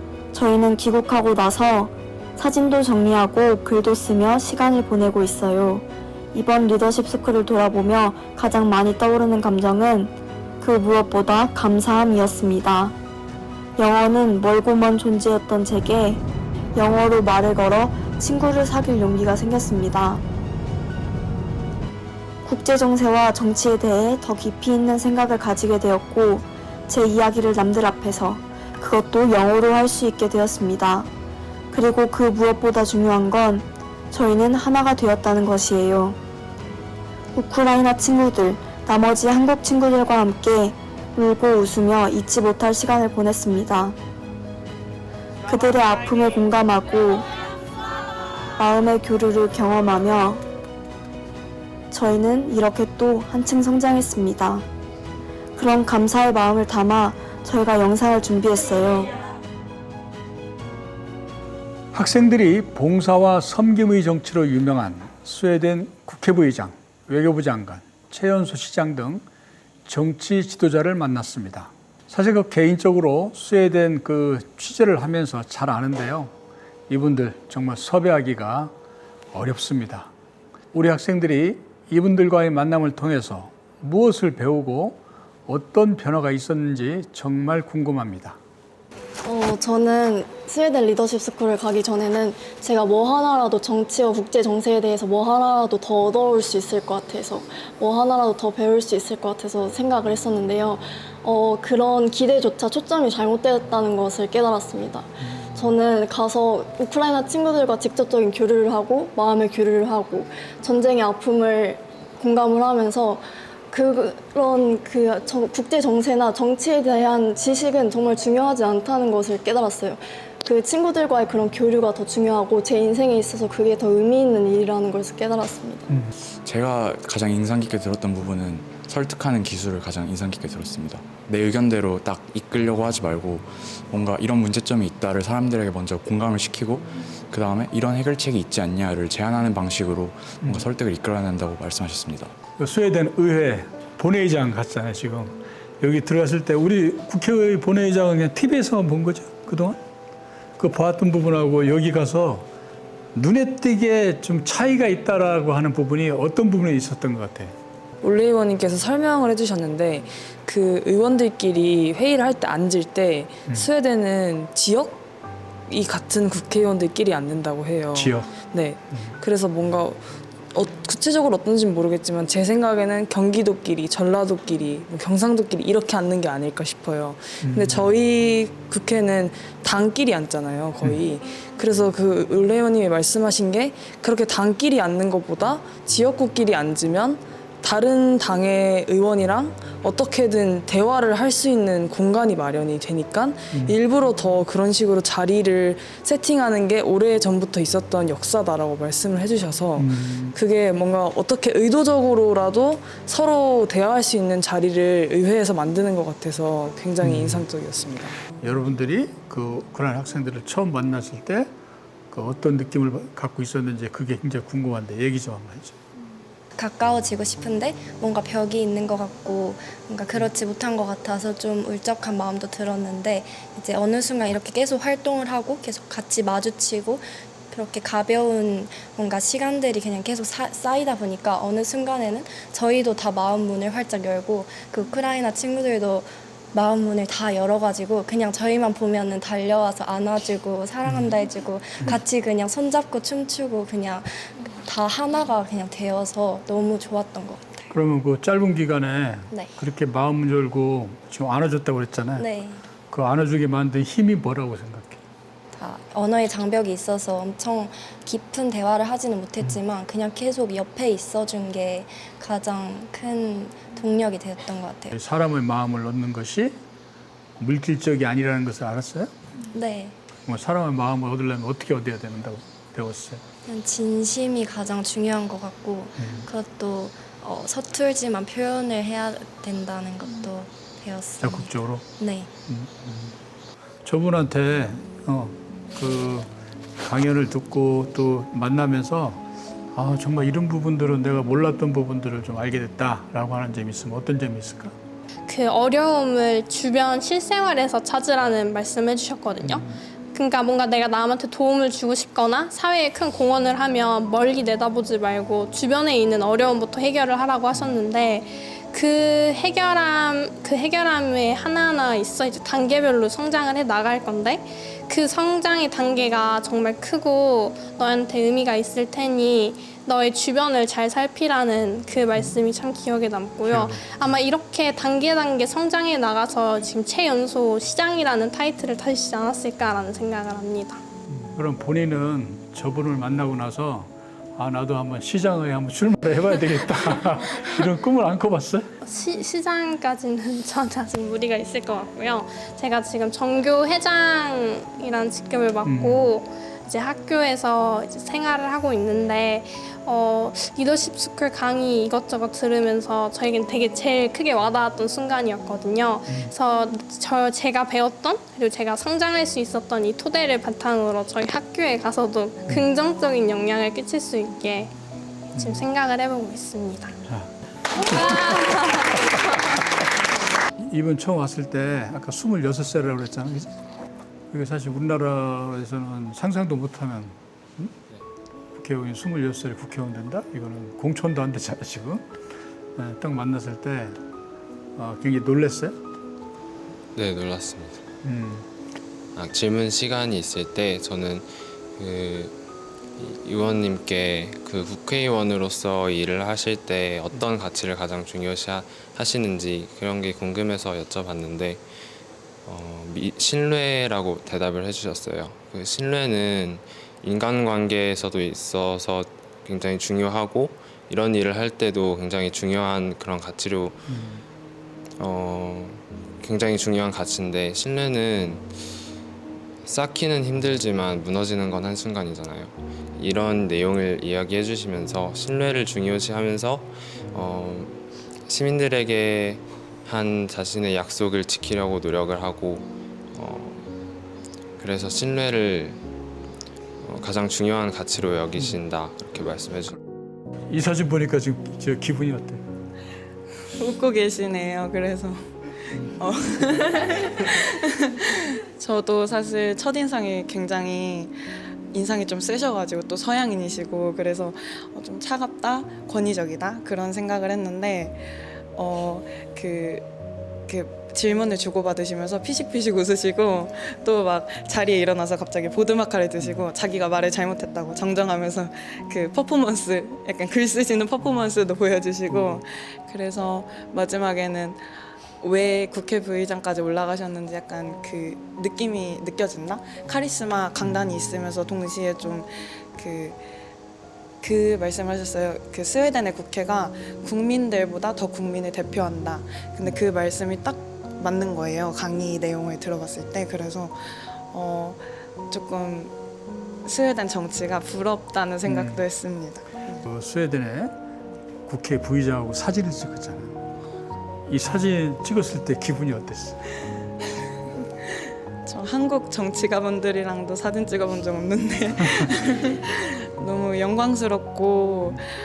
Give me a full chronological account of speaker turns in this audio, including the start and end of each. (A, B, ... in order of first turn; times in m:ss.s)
0:00.3-0:12.9 A
0:13.8-0:16.2 A
0:16.7-0:20.2 A
0:22.4-0:31.1 A
0:31.7-0:36.2 A
0:37.3-0:44.0 A
0:45.5-0:47.3 A
0:48.6-0:50.4 A
0:51.9-0:54.6 A
0:55.6-0:59.1 A
1:01.9-1:09.2 B
1:09.8-1:16.3 B
1:16.9-1:18.7 B
1:19.3-1:20.1 B
1:20.7-1:28.4 B
1:29.2-2:05.9 C
1:45.2-1:45.8 B
2:06.4-2:22.3 D
2:20.4-2:20.6 B
2:22.6-2:29.8 B
2:30.6-2:32.5 B
2:33.1-2:37.6 B
2:38.0-2:45.0 E
2:45.7-3:28.1 E
2:47.9-2:48.3 B
2:48.9-2:49.2 B
2:57.4-2:57.9 B
3:13.5-3:13.8 B
3:19.8-3:20.4 B
3:27.0-3:27.5 B
3:28.4-3:31.5 B
3:32.1-3:35.8 B
3:36.6-4:07.7 F
4:07.7-4:12.3 B
4:12.2-4:12.6 F
4:12.9-4:15.0 B
4:15.5-4:24.9 F
4:24.9-4:26.6 B
4:27.4-4:29.1 B
4:29.5-4:30.0 F
4:30.2-4:33.2 B
4:33.4-4:42.3 F
4:36.0-4:36.3 B
4:41.2-4:41.8 B
4:42.4-4:43.1 B
4:43.8-4:54.7 B
4:55.3-5:30.8 G
4:59.4-4:59.8 B
5:23.4-5:24.1 B
5:31.1-5:38.7 B
5:38.8-6:04.7 G
5:45.6-5:46.1 B
6:05.3-6:07.0 G
6:05.4-6:05.6 B
6:07.9-6:09.0 G
6:10.6-6:13.5 B
6:14.3-6:17.7 B
6:18.5-6:22.0 B
6:22.8-6:24.0 B
6:24.8-6:25.8 B
6:27.0-6:27.8 H
6:28.0-6:28.5 B
6:29.1-6:32.4 H
6:33.0-6:41.6 H
6:42.4-6:53.9 H
6:53.9-6:54.2 B
6:55.0-6:58.7 H
6:59.6-7:13.7 H
7:14.6-7:15.8 H
7:16.8-7:19.8 H
7:20.5-7:22.4 B
7:23.6-7:25.2 I
7:25.7-7:27.1 I
7:27.9-7:31.1 I
7:31.7-7:39.8 I
7:40.5-7:54.6 I
7:55.2-8:03.2 I
8:04.2-8:15.9 I
8:16.6-8:19.8 I
8:18.4-8:18.8 B
8:19.8-8:20.7 B
8:21.4-8:23.4 B
8:24.3-8:26.4 B
8:28.4-8:35.1 I